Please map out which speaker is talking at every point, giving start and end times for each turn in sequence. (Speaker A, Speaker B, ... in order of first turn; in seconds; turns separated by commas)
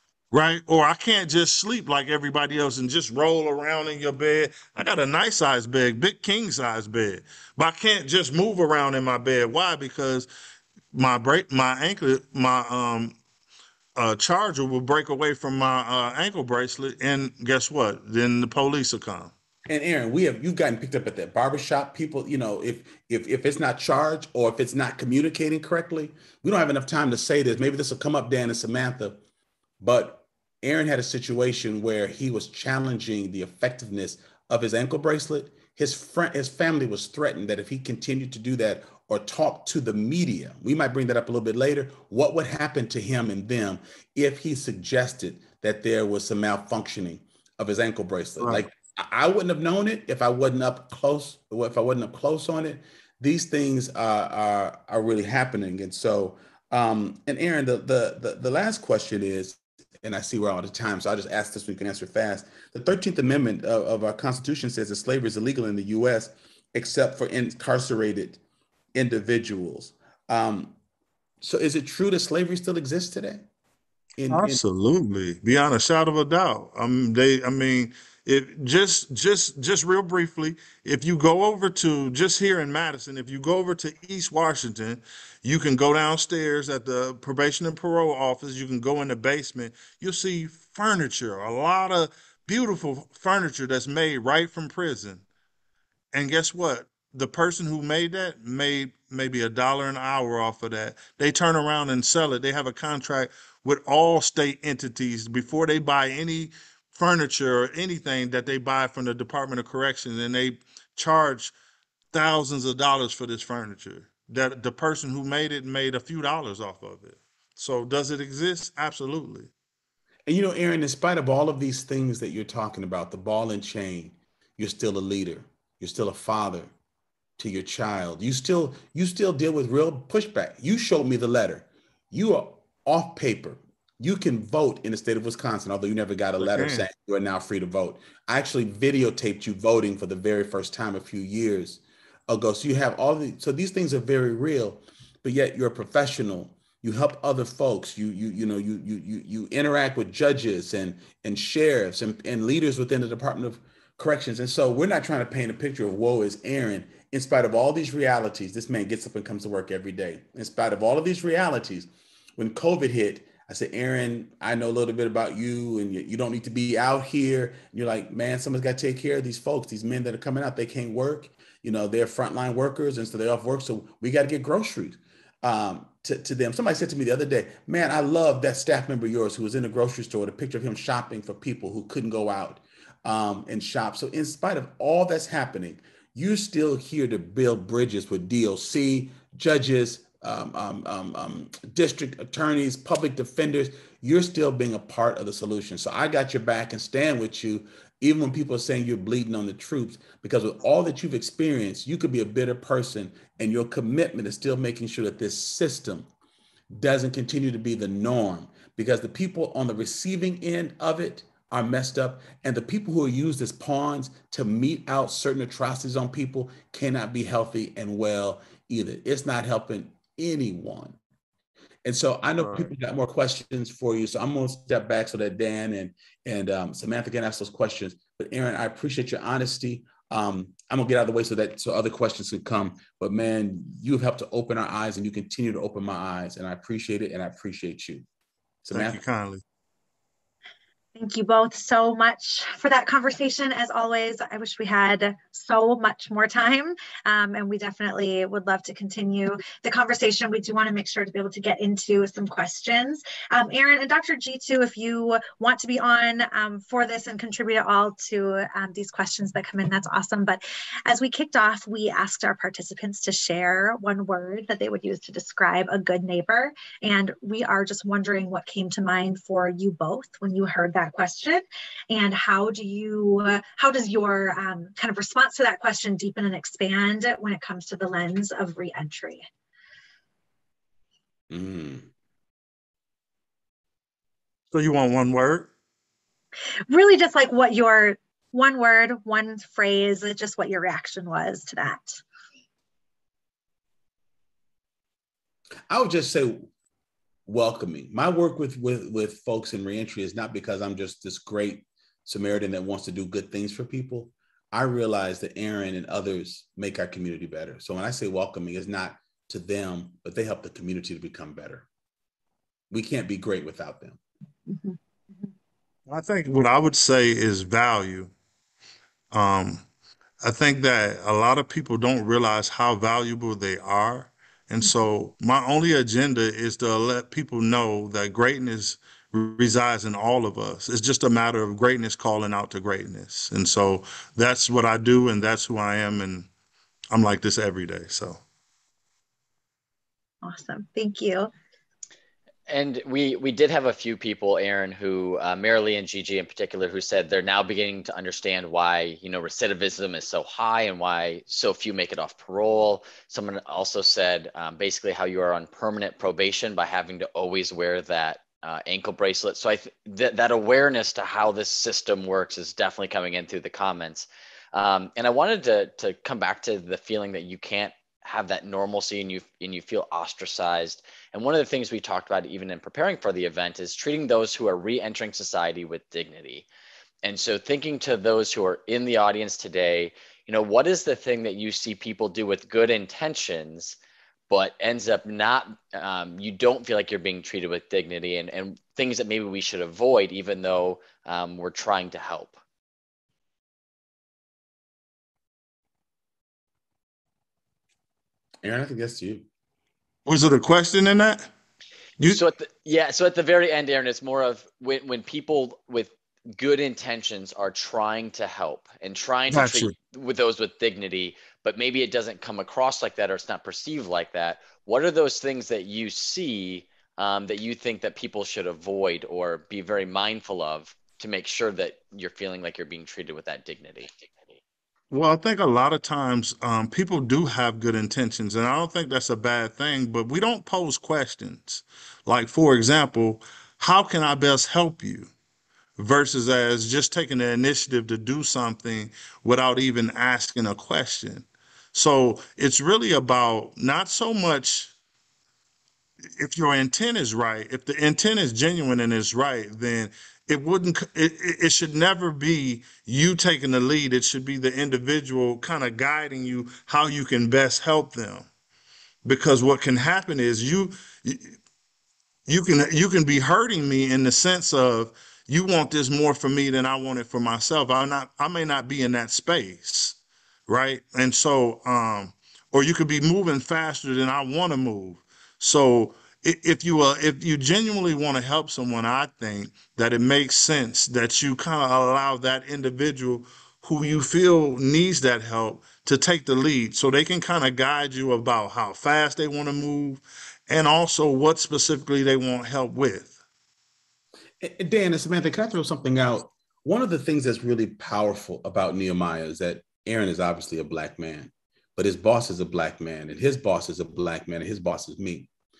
Speaker A: 0.3-10.3, Speaker A: 10.9-13.2, Speaker A: 14.0-19.3, Speaker B: 19.7-29.2, Speaker B: 29.8-68.4, Speaker B: 68.9-70.8, Speaker B: 71.4-73.5, Speaker B: 74.2-74.6, Speaker A: 74.3-95.2, Speaker A: 96.1-111.5, Speaker A: 112.1-119.5, Speaker B: 120.3-126.7, Speaker B: 127.4-206.1, Speaker A: 136.4-136.9, Speaker B: 206.7-221.0, Speaker B: 221.8-238.1, Speaker A: 222.4-222.7, Speaker B: 238.7-239.0, Speaker A: 238.7-239.4, Speaker C: 241.0-279.2, Speaker B: 281.3-281.9, Speaker A: 284.5-285.5, Speaker C: 286.7-292.0, Speaker B: 295.7-296.5, Speaker B: 297.3-311.7, Speaker B: 312.7-314.0, Speaker C: 314.5-315.3, Speaker A: 315.9-318.1, Speaker A: 319.1-319.6, Speaker A: 320.2-336.3, Speaker A: 336.9-338.2, Speaker C: 340.2-341.3, Speaker D: 342.5-376.5, Speaker D: 377.0-383.8, Speaker D: 384.3-392.4, Speaker B: 398.4-399.3, Speaker A: 400.1-401.3, Speaker D: 402.0-424.4, Speaker A: 409.3-409.7, Speaker A: 424.9-435.1, Speaker A: 435.8-444.7, Speaker A: 446.2-458.3, Speaker A: 459.1-461.4, Speaker A: 462.3-493.2, Speaker B: 494.4-505.3